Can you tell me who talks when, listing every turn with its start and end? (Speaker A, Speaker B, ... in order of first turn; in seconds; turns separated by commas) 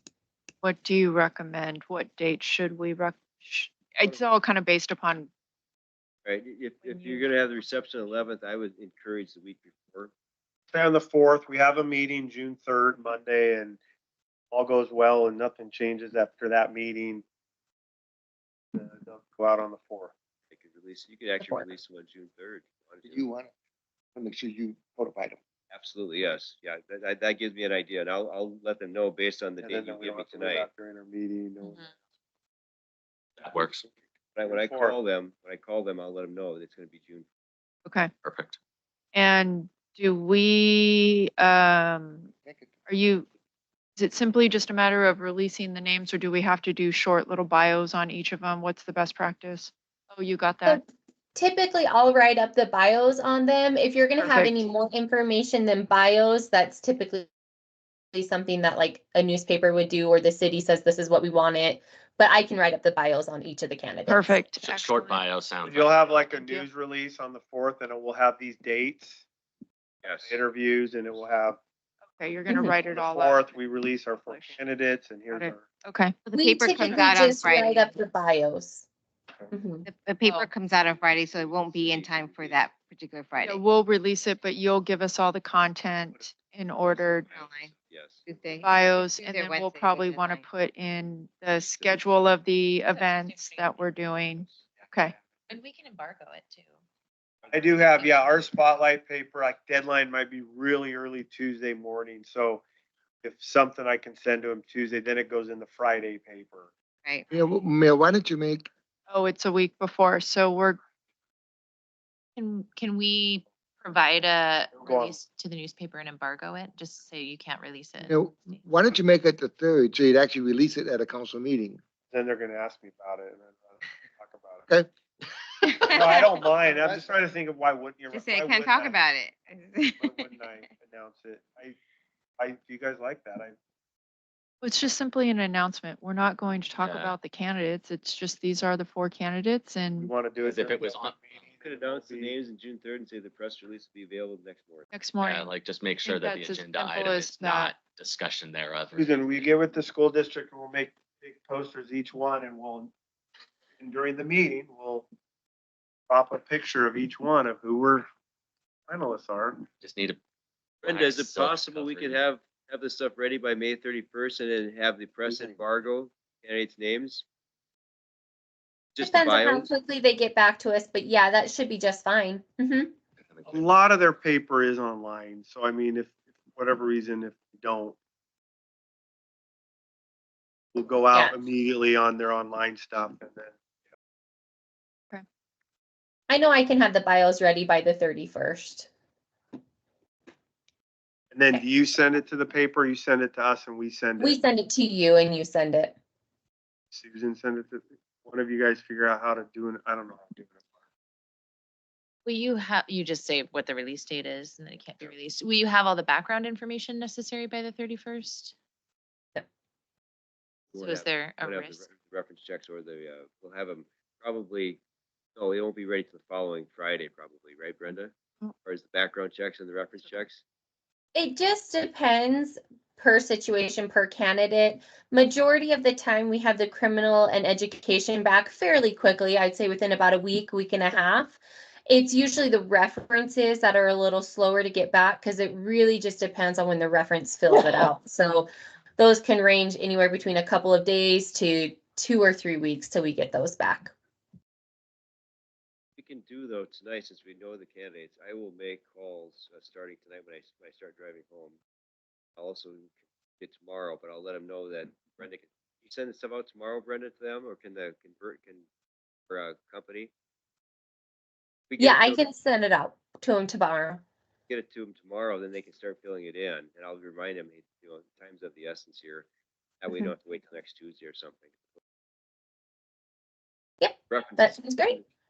Speaker A: 0.6-5.3, Speaker B: 6.2-10.1, Speaker A: 6.8-7.3, Speaker C: 10.7-13.8, Speaker C: 14.5-17.2, Speaker C: 18.7-20.1, Speaker B: 20.5-23.2, Speaker D: 21.4-21.6, Speaker E: 23.0-23.5, Speaker E: 24.1-25.4, Speaker B: 25.7-30.7, Speaker C: 29.6-31.9, Speaker F: 31.6-31.9, Speaker G: 33.4-33.9, Speaker B: 34.4-37.2, Speaker C: 34.5-35.0, Speaker A: 37.9-38.1, Speaker G: 38.2-38.6, Speaker A: 39.1-42.3, Speaker E: 42.4-42.7, Speaker A: 42.9-43.2, Speaker A: 44.0-50.8, Speaker D: 51.3-57.3, Speaker A: 54.2-54.6, Speaker D: 58.1-64.4, Speaker A: 64.1-65.3, Speaker G: 64.6-66.2, Speaker C: 65.6-69.2, Speaker A: 66.3-66.7, Speaker B: 70.0-70.4, Speaker C: 70.2-71.6, Speaker A: 72.2-73.5, Speaker C: 72.9-75.7, Speaker A: 74.2-74.6, Speaker A: 75.3-76.1, Speaker H: 76.2-77.9, Speaker D: 76.3-78.8, Speaker D: 79.5-79.8, Speaker H: 79.8-83.6, Speaker B: 80.9-82.7, Speaker A: 83.4-87.3, Speaker H: 87.3-87.7, Speaker B: 87.3-88.6, Speaker H: 88.3-90.5, Speaker A: 88.6-95.2, Speaker F: 92.9-93.9, Speaker F: 95.5-96.7, Speaker C: 97.5-102.6, Speaker F: 97.9-98.4, Speaker C: 103.2-106.7, Speaker E: 107.3-108.7, Speaker A: 109.1-110.8, Speaker F: 112.3-118.6, Speaker C: 114.7-115.2, Speaker E: 118.1-121.8, Speaker C: 122.1-124.6, Speaker H: 125.6-126.2, Speaker C: 125.9-128.9, Speaker E: 126.7-127.1, Speaker H: 128.1-130.7, Speaker C: 130.0-131.8, Speaker C: 132.4-133.5, Speaker A: 134.6-140.1, Speaker G: 136.8-137.1, Speaker C: 140.0-142.3, Speaker G: 140.4-141.4, Speaker B: 141.6-144.8, Speaker A: 144.9-145.5, Speaker G: 145.2-149.5, Speaker A: 146.0-147.7, Speaker C: 148.9-152.9, Speaker C: 153.8-155.1, Speaker C: 156.1-158.1, Speaker C: 158.9-159.6, Speaker G: 159.8-160.2, Speaker G: 160.8-162.2, Speaker B: 160.8-167.2, Speaker B: 168.9-169.7, Speaker D: 169.0-172.9, Speaker G: 173.2-173.7, Speaker C: 173.5-177.9, Speaker C: 180.7-183.5, Speaker D: 186.3-188.9, Speaker C: 191.3-194.4, Speaker D: 194.2-195.9, Speaker C: 196.9-200.6, Speaker F: 202.2-208.5, Speaker B: 210.7-214.8, Speaker F: 210.7-211.9, Speaker B: 215.3-220.4, Speaker D: 221.1-231.4, Speaker D: 231.9-243.9, Speaker B: 246.0-251.6, Speaker B: 252.4-258.6, Speaker B: 259.3-260.1, Speaker B: 261.7-262.2, Speaker D: 261.8-264.0, Speaker B: 264.5-269.3, Speaker B: 269.8-271.6, Speaker D: 273.8-275.0, Speaker B: 274.1-275.0